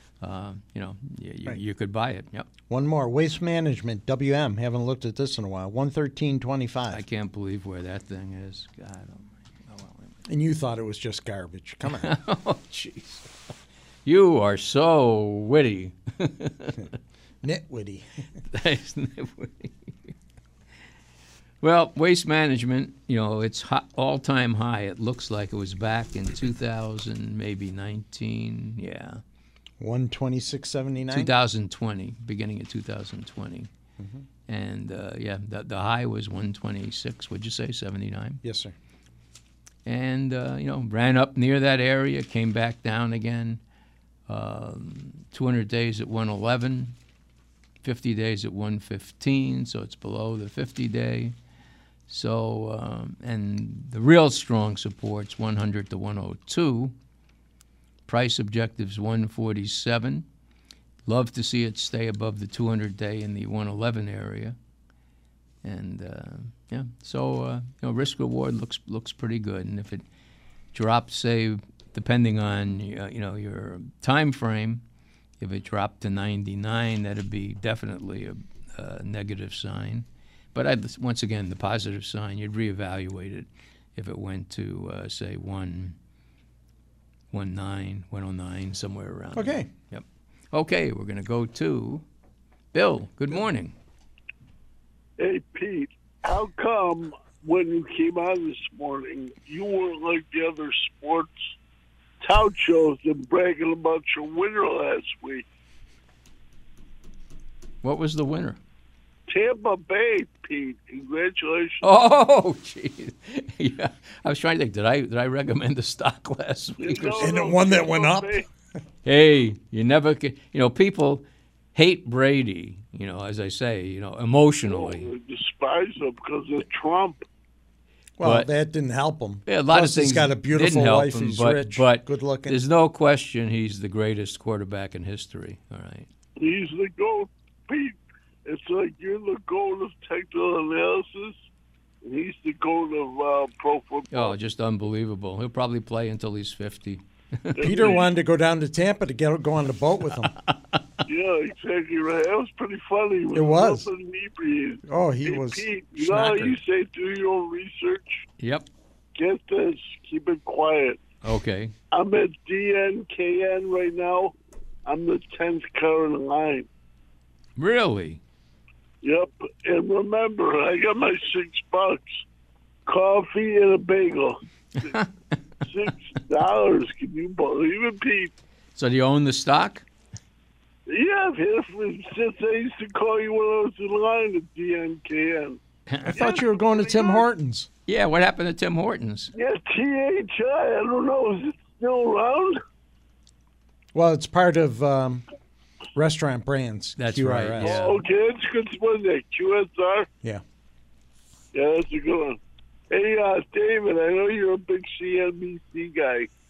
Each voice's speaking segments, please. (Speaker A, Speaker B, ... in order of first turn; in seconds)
Speaker A: 0.2-2.5, 6.9-10.1, 11.9-13.3, 14.0-16.9, 18.5-20.1, 21.6-29.2, 31.1-33.7, 34.5-38.4, 39.9-43.6, 44.3-46.9, 47.8-51.3, 52.1-56.9, 58.1-60.2, 61.1-64.5, 65.6-70.0, 70.7-74.8, 75.4-86.0, 87.3-92.0, 92.7-93.7, 107.8-108.6, 111.8-117.3, 119.0-121.2, 121.7-125.1, 128.2-128.5, 129.4-136.1, 144.1-148.0, 150.5-150.8, 158.4-158.7, 161.2-161.7, 167.6-168.2, 174.8-175.1, 178.8-179.8, 185.9-186.3, 187.9-189.3, 197.0-198.0
Speaker B: 2.7-7.0, 10.2-12.1, 17.4-18.1, 29.8-31.3, 34.0-34.2, 38.4-38.7, 89.3-89.7, 117.2-118.4, 128.2-132.6, 147.6-150.3, 153.3-153.9, 154.8-156.6, 186.1-187.7, 193.9-195.2, 195.9-197.8
Speaker C: 95.2-101.5, 102.2-105.4, 109.3-111.8, 116.8-118.5, 124.7-127.2, 136.4-141.4, 142.0-144.3, 147.6-148.1, 151.1-158.2, 159.2-161.0, 161.9-164.3, 164.8-166.7, 169.0-172.2, 172.8-174.4, 175.6-178.3, 180.9-185.6, 186.1-187.2, 189.3-192.6, 197.6-200.1, 201.5-202.4, 202.9-206.3